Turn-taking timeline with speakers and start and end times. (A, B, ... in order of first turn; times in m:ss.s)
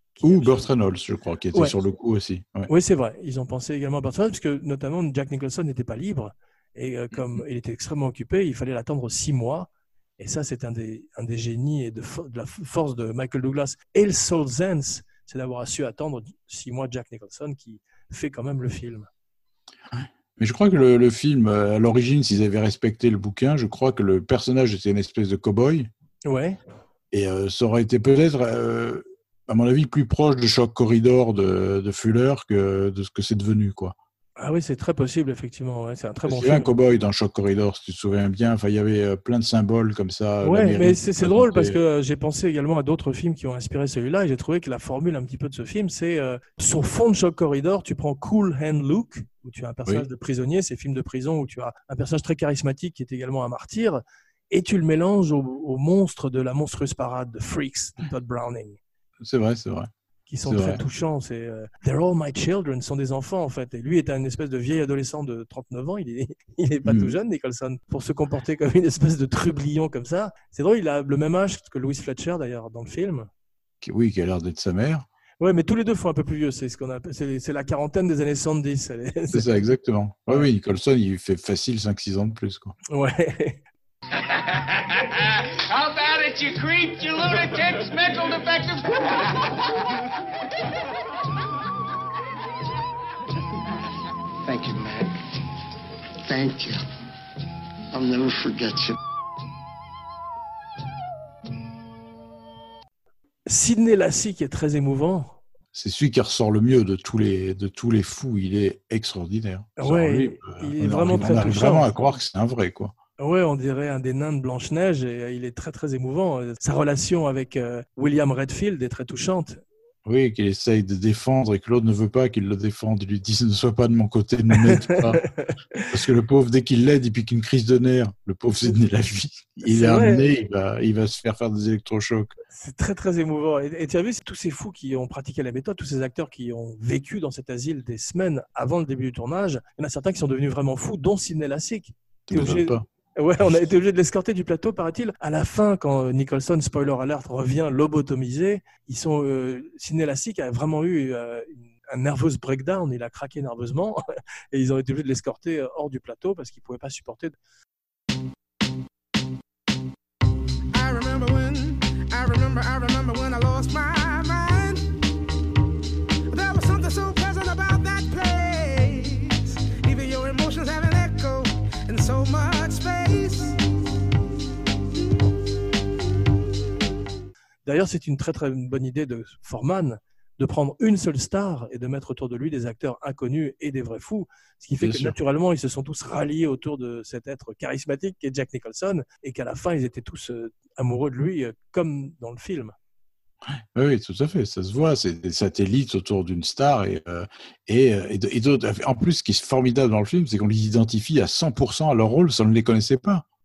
0:00.2-0:00.7 A
0:00.2-0:02.7 B
0:02.7-0:19.1 A
0:07.1-0:07.4 B
0:19.9-0:25.9 B
0:26.3-0:26.6 A
0:27.1-0:33.9 B
0:34.4-0:36.7 A
0:36.2-0:41.8 B
0:40.4-0:58.8 A
0:59.2-0:59.9 B
1:00.3-1:13.3 A
1:00.4-1:00.8 B
1:06.8-1:07.1 B
1:13.8-1:15.0 B
1:15.4-1:19.5 A
1:19.3-1:22.7 B
1:22.9-1:23.6 A
1:25.8-1:28.6 C
1:34.4-1:35.2 D
1:36.2-1:36.8 D
1:37.9-1:38.9 D
1:43.4-1:45.4 A
1:45.7-1:52.9 B
1:49.8-1:51.9 A
1:53.2-1:59.6 A
2:00.0-2:05.2 B
2:04.6-2:05.9 A
2:05.9-2:12.3 B
2:09.6-2:10.2 A
2:12.5-2:34.0 A
2:22.3-2:22.8 B
2:34.5-2:37.4 A
2:40.7-2:44.9 E
2:46.3-2:53.6 E
2:57.6-3:12.7 A
3:04.8-3:05.1 B
3:13.5-3:23.2 B